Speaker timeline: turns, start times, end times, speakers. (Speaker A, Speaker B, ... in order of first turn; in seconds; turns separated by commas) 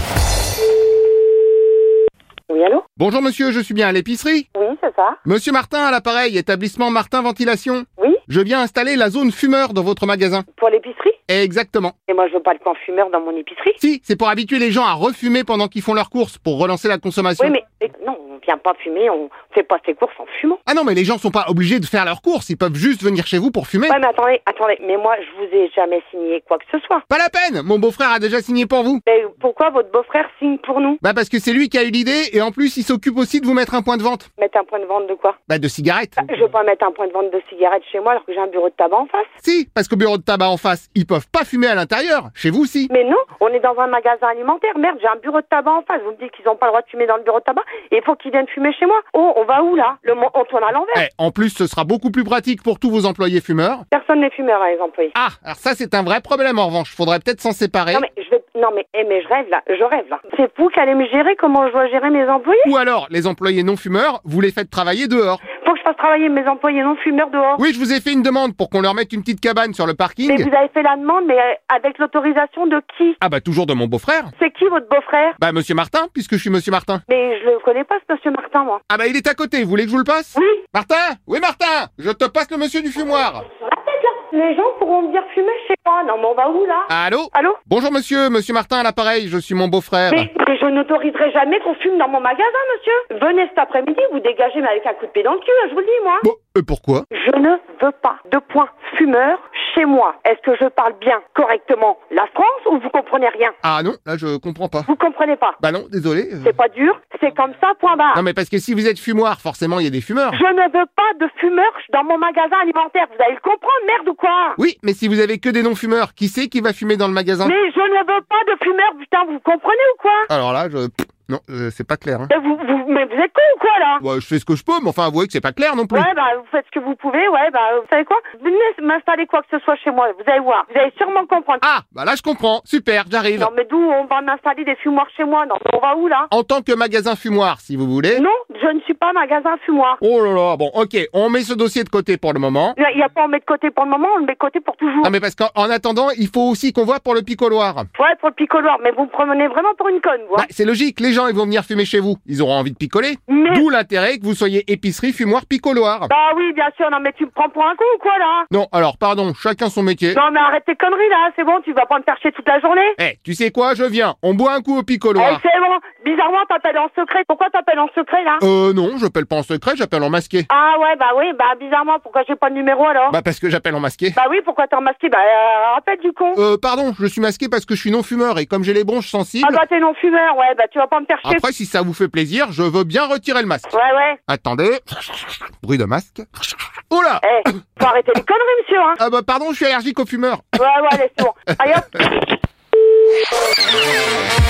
Speaker A: 2.5-2.8, Speaker B: 3.0-4.5, Speaker A: 4.5-5.2, Speaker B: 5.2-10.4, Speaker A: 10.5-11.2, Speaker B: 11.3-11.9, Speaker A: 12.1-13.8, Speaker B: 13.8-17.5, Speaker A: 17.4-20.6, Speaker B: 20.6-24.0, Speaker A: 23.9-27.0, Speaker B: 27.1-29.0, Speaker A: 29.1-31.0, Speaker B: 31.0-34.3, Speaker A: 34.4-35.4, Speaker B: 35.5-36.2, Speaker A: 36.2-39.3, Speaker B: 39.4-42.9, Speaker A: 42.9-51.0, Speaker B: 50.9-53.8, Speaker A: 53.9-55.1, Speaker B: 55.1-58.0, Speaker A: 57.9-62.7, Speaker B: 62.6-65.4, Speaker A: 65.6-67.6, Speaker B: 67.6-70.5, Speaker A: 70.3-73.2, Speaker B: 73.2-74.3, Speaker A: 74.4-75.4, Speaker B: 75.4-77.0, Speaker A: 77.1-78.8, Speaker B: 78.9-83.4, Speaker A: 80.3-80.6, Speaker A: 83.6-87.6, Speaker B: 86.9-90.3, Speaker A: 90.1-96.2, Speaker B: 96.2-97.1, Speaker A: 97.1-103.5, Speaker B: 103.6-104.9, Speaker A: 104.9-105.6, Speaker B: 105.6-106.5, Speaker A: 106.4-108.2, Speaker B: 108.1-110.4, Speaker A: 110.3-114.6, Speaker B: 114.6-117.5, Speaker A: 117.4-120.3, Speaker B: 120.3-122.3, Speaker A: 122.3-124.0, Speaker B: 124.0-126.1, Speaker A: 125.9-131.6, Speaker B: 131.6-133.5, Speaker A: 133.4-136.3, Speaker B: 136.3-138.2, Speaker A: 138.1-140.0, Speaker B: 140.0-142.8, Speaker A: 142.8-145.1, Speaker B: 145.0-147.9, Speaker A: 147.9-150.5, Speaker B: 150.3-156.1, Speaker A: 153.3-153.7, Speaker A: 156.1-158.5, Speaker B: 158.5-160.2, Speaker A: 160.1-163.0, Speaker B: 163.0-165.4, Speaker A: 165.2-168.4, Speaker B: 168.4-170.5, Speaker A: 170.5-173.2, Speaker B: 173.1-174.2, Speaker A: 174.1-176.4, Speaker B: 176.3-179.6, Speaker A: 179.4-181.4, Speaker B: 181.2-183.7, Speaker A: 183.7-184.2, Speaker B: 184.3-187.5, Speaker A: 187.2-189.0, Speaker B: 189.0-190.6, Speaker A: 190.6-192.2